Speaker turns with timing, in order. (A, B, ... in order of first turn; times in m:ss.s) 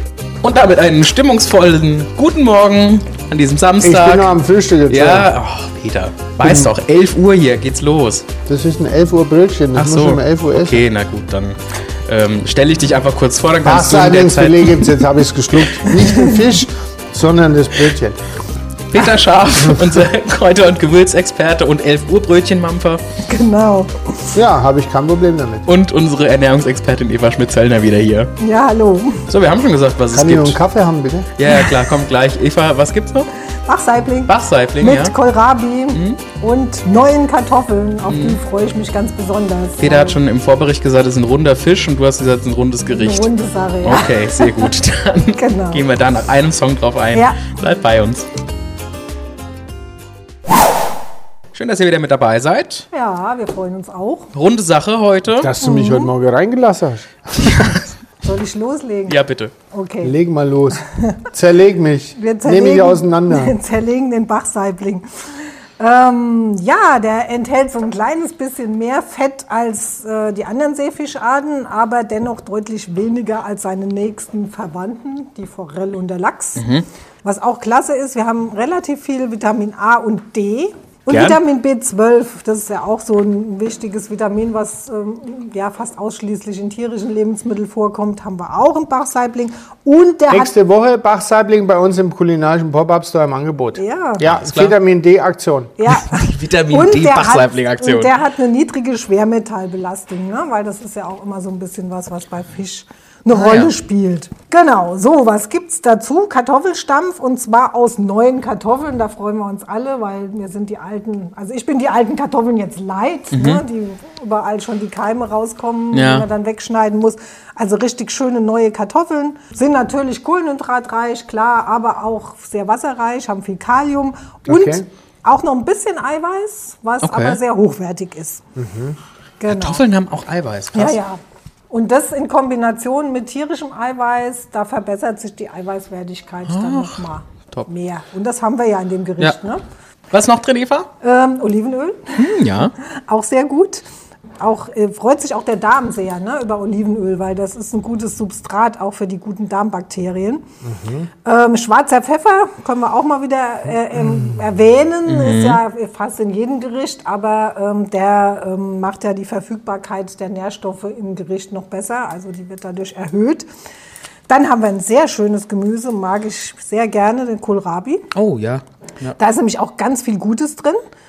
0:00.4-0:04.3 A
0:03.8-0:05.3 B
0:04.9-0:08.3 A
0:06.4-0:06.7 B
0:08.5-0:10.9 B
0:09.8-0:11.6 A
0:12.1-0:15.0 A
0:13.6-0:18.2 B
0:18.9-0:23.0 A
0:23.2-0:24.4 C
0:24.3-0:25.7 B
0:25.7-0:28.3 A
0:28.4-0:29.3 C
0:29.3-0:30.6 A
0:30.1-0:31.3 B
0:31.4-0:33.3 A
0:33.6-0:40.2 C
0:34.3-0:35.1 A
0:35.9-0:36.2 A
0:38.1-0:38.4 A
0:39.8-0:43.3 A
0:42.8-0:44.7 C
0:43.8-0:48.3 A
0:45.3-0:45.8 C
0:47.1-0:47.5 C
0:51.5-0:52.9 A
0:52.9-0:54.3 C
0:54.3-0:55.5 A
0:55.4-0:57.8 B
0:55.6-0:56.1 C
0:58.2-1:00.2 C
0:59.1-0:59.5 A
1:00.0-1:03.6 B
1:02.2-1:05.1 C
1:05.8-1:16.7 C
1:16.6-1:16.8 A
1:17.2-1:30.5 C
1:21.1-1:21.4 A
1:30.3-1:35.8 B
1:33.8-1:34.3 C
1:34.3-1:34.8 A
1:35.8-2:08.4 C
1:35.9-1:38.1 A
1:43.3-1:43.7 A
1:53.3-1:53.6 A
1:55.9-1:56.2 A
2:04.5-2:04.9 B
2:07.0-2:07.4 A
2:08.6-2:09.0 B
2:09.4-2:09.8 C
2:09.5-2:11.0 A
2:10.7-2:19.6 C
2:16.5-2:17.0 A
2:20.1-2:20.9 A
2:21.0-2:23.8 C
2:22.2-2:22.7 A
2:24.4-2:30.4 C
2:30.6-2:31.1 B
2:31.2-2:43.5 C
2:35.1-2:35.6 A
2:44.3-2:48.1 C
2:48.1-2:49.2 A
2:49.2-2:50.8 C